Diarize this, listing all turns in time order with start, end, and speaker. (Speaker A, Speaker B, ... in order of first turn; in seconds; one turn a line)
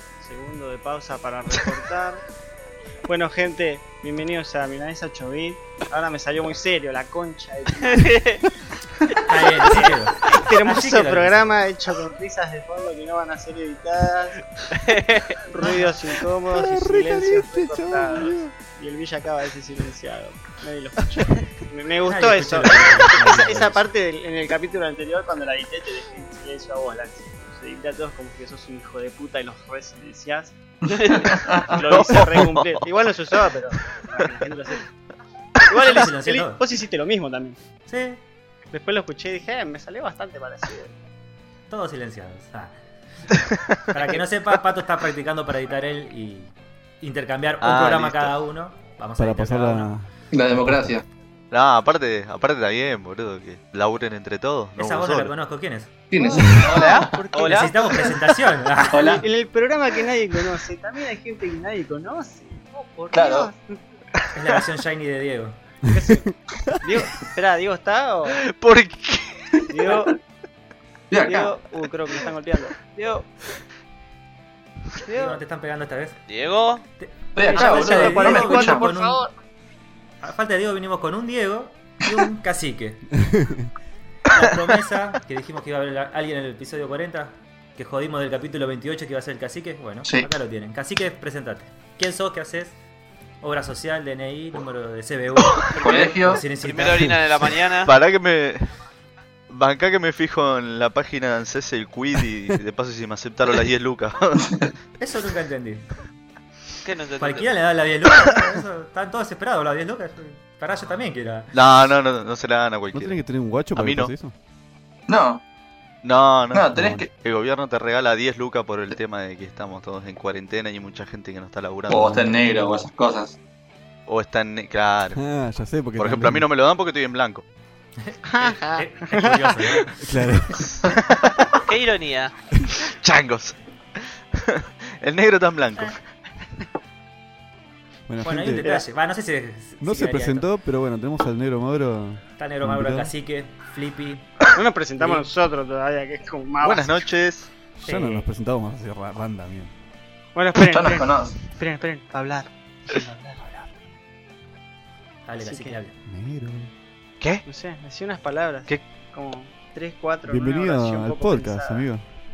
Speaker A: 0.2-2.2
Speaker A: 3.1-8.2
Speaker B: 7.8-8.4
Speaker C: 9.1-11.6
Speaker A: 9.6-14.4
Speaker B: 14.8-15.4
Speaker A: 15.4-30.6
Speaker C: 15.6-15.9
Speaker D: 16.5-18.5
Speaker C: 22.0-23.9
Speaker E: 30.8-31.8
Speaker A: 31.1-34.8
Speaker F: 31.6-32.9
Speaker A: 35.7-37.6
Speaker C: 35.8-36.6
Speaker C: 37.9-38.2
Speaker A: 38.7-40.9
Speaker C: 41.7-43.3
Speaker C: 43.9-49.9
Speaker F: 47.6-48.3
Speaker D: 49.2-50.9
Speaker E: 50.3-51.0
Speaker F: 51.5-55.3
Speaker C: 54.8-55.9
Speaker E: 56.1-57.1
Speaker A: 56.2-58.1
Speaker D: 56.4-56.6
Speaker B: 56.5-57.7
Speaker C: 57.4-59.2
Speaker E: 58.9-59.2
Speaker A: 58.9-63.8
Speaker E: 63.1-63.5
Speaker C: 64.3-65.6
Speaker A: 65.9-68.4
Speaker F: 68.3-69.9
Speaker A: 69.7-70.2
Speaker E: 71.1-71.5
Speaker A: 71.2-73.2
Speaker A: 75.0-75.4
Speaker C: 75.1-76.2
Speaker B: 76.3-76.8
Speaker C: 77.0-79.2
Speaker E: 77.3-79.1
Speaker A: 77.4-79.3
Speaker C: 80.2-83.0
Speaker D: 83.2-83.7
Speaker C: 84.3-92.8
Speaker C: 93.4-97.2
Speaker B: 95.7-97.9
Speaker E: 95.8-96.4
Speaker F: 97.8-98.8
Speaker F: 99.5-104.5
Speaker C: 105.0-105.9
Speaker B: 106.8-107.5
Speaker C: 107.2-111.5
Speaker F: 111.5-113.2
Speaker D: 112.9-114.3
Speaker F: 113.7-114.1
Speaker E: 115.1-115.4
Speaker F: 116.0-122.3
Speaker E: 116.5-117.0
Speaker D: 116.7-117.0
Speaker E: 121.9-123.4
Speaker D: 122.1-122.8
Speaker F: 124.1-125.2
Speaker D: 125.1-126.5
Speaker F: 126.0-127.4
Speaker C: 128.0-129.9
Speaker A: 128.3-129.9
Speaker D: 130.0-130.7
Speaker F: 130.8-131.6
Speaker B: 131.6-132.4
Speaker F: 132.8-136.0
Speaker D: 138.1-138.8
Speaker C: 138.2-140.5
Speaker D: 139.8-143.1
Speaker C: 142.4-144.5
Speaker A: 144.5-146.9
Speaker C: 145.0-145.3
Speaker F: 146.6-147.5
Speaker D: 147.8-149.7
Speaker C: 147.8-148.3
Speaker A: 150.3-153.7
Speaker E: 150.7-151.4
Speaker C: 155.2-155.9
Speaker A: 155.4-155.8
Speaker D: 156.0-156.7
Speaker A: 157.4-161.9
Speaker D: 160.2-162.0